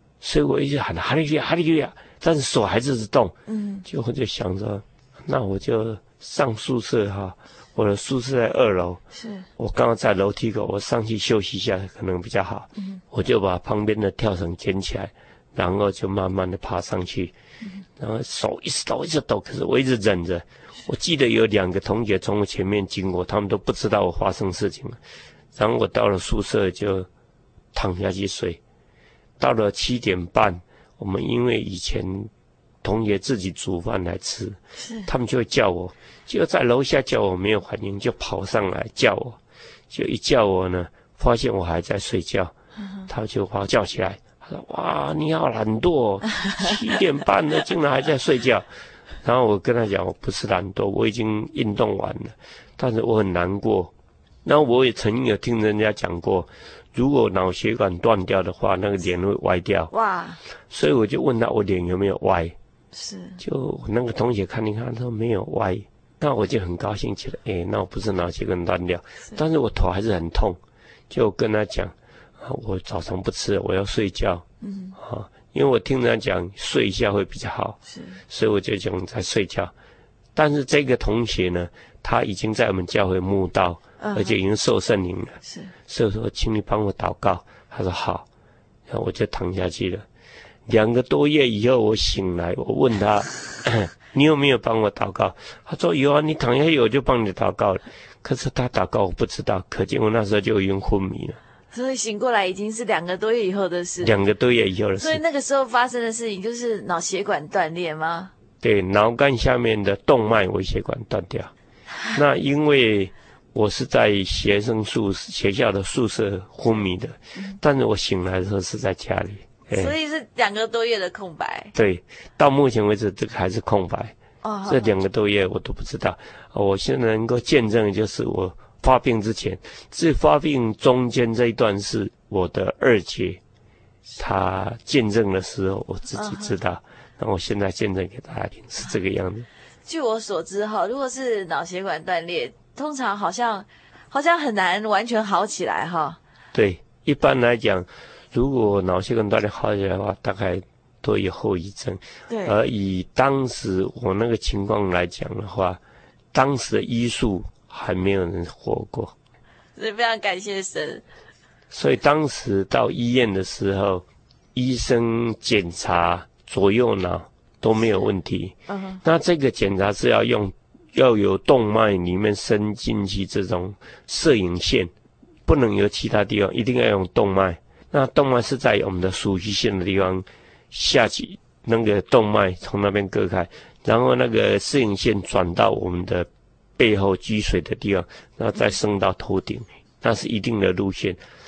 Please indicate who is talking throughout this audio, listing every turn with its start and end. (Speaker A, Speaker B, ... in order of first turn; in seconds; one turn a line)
Speaker A: 0.2-9.0
Speaker B: 3.5-3.8
Speaker B: 9.1-9.5
Speaker A: 9.6-17.3
Speaker A: 18.0-25.0
Speaker A: 25.5-27.1
Speaker A: 27.7-28.6
Speaker A: 29.4-32.3
Speaker A: 32.8-39.4
Speaker B: 34.8-35.1
Speaker A: 39.9-42.5
Speaker A: 43.1-48.7
Speaker A: 49.2-53.9
Speaker A: 54.4-59.9
Speaker B: 59.9-60.4
Speaker A: 60.7-62.5
Speaker B: 62.9-63.4
Speaker A: 63.4-70.6
Speaker A: 71.1-74.4
Speaker B: 74.6-74.9
Speaker A: 75.0-77.8
Speaker B: 77.9-78.2
Speaker A: 78.3-79.7
Speaker A: 80.3-88.2
Speaker B: 84.0-84.3
Speaker B: 85.5-85.7
Speaker A: 88.9-90.0
Speaker A: 90.7-101.4
Speaker B: 101.7-104.1
Speaker A: 104.0-105.2
Speaker B: 105.0-108.3
Speaker A: 108.6-111.5
Speaker A: 112.1-119.9
Speaker B: 119.7-121.7
Speaker A: 121.7-124.1
Speaker B: 124.4-124.9
Speaker A: 124.7-133.4
Speaker A: 134.2-139.5
Speaker B: 136.1-136.5
Speaker B: 139.8-146.2
Speaker A: 146.5-155.8
Speaker B: 152.3-152.5
Speaker A: 156.3-159.1
Speaker B: 159.8-161.0
Speaker A: 161.7-174.9
Speaker B: 168.7-169.0
Speaker A: 175.4-191.2